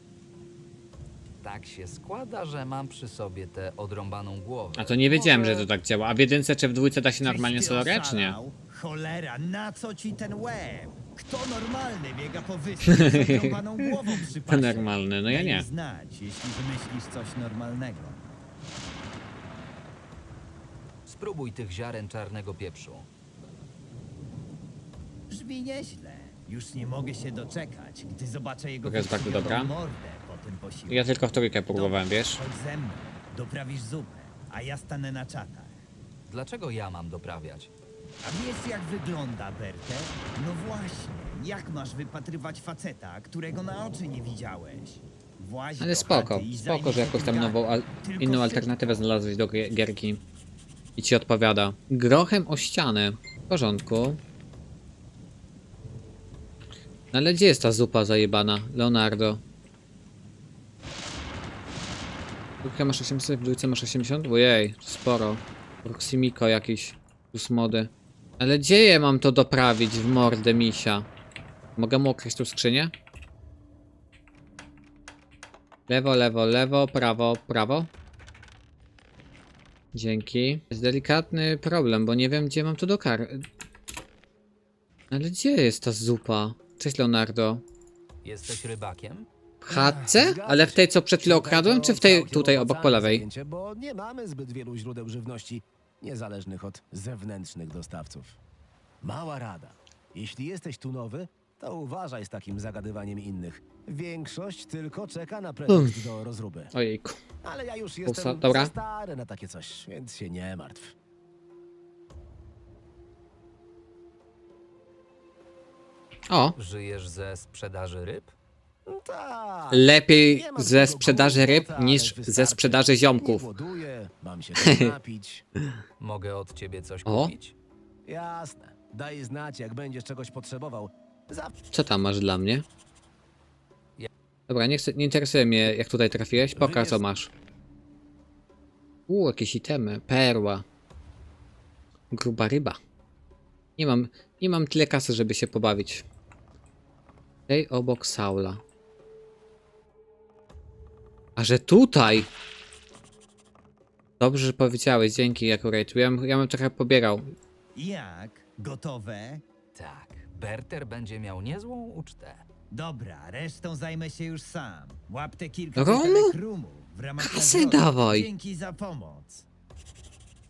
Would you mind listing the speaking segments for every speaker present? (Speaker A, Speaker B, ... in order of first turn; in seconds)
Speaker A: 1.4-5.4, 21.1-23.1, 36.3-37.7, 88.2-89.3, 116.6-118.3, 126.0-127.5, 159.8-162.4
Speaker B: 4.8-8.4, 12.9-15.7, 28.8-29.7, 30.9-32.4, 45.8-50.2, 51.0-54.2, 57.1-59.4, 62.6-71.1, 71.8-72.9, 75.9-77.9, 79.9-83.4, 85.1-87.6, 89.6-93.2, 105.7-106.0, 106.7-107.2, 108.1-108.7, 116.3-116.6, 119.7-123.5, 124.6-124.9, 127.1-127.3, 131.7-132.7, 134.5-137.3, 139.1-140.7, 142.1-142.8, 143.8-146.0, 147.5-148.6, 151.4-152.3, 154.2-157.3, 165.8-166.4, 167.2-168.3
Speaker C: 7.2-18.4, 25.3-31.1, 31.7-35.8, 38.2-48.8, 157.8-159.4, 162.7-169.4
Speaker D: 89.7-98.4, 99.0-106.7, 107.4-110.9, 118.9-125.5, 128.1-131.5, 136.6-137.0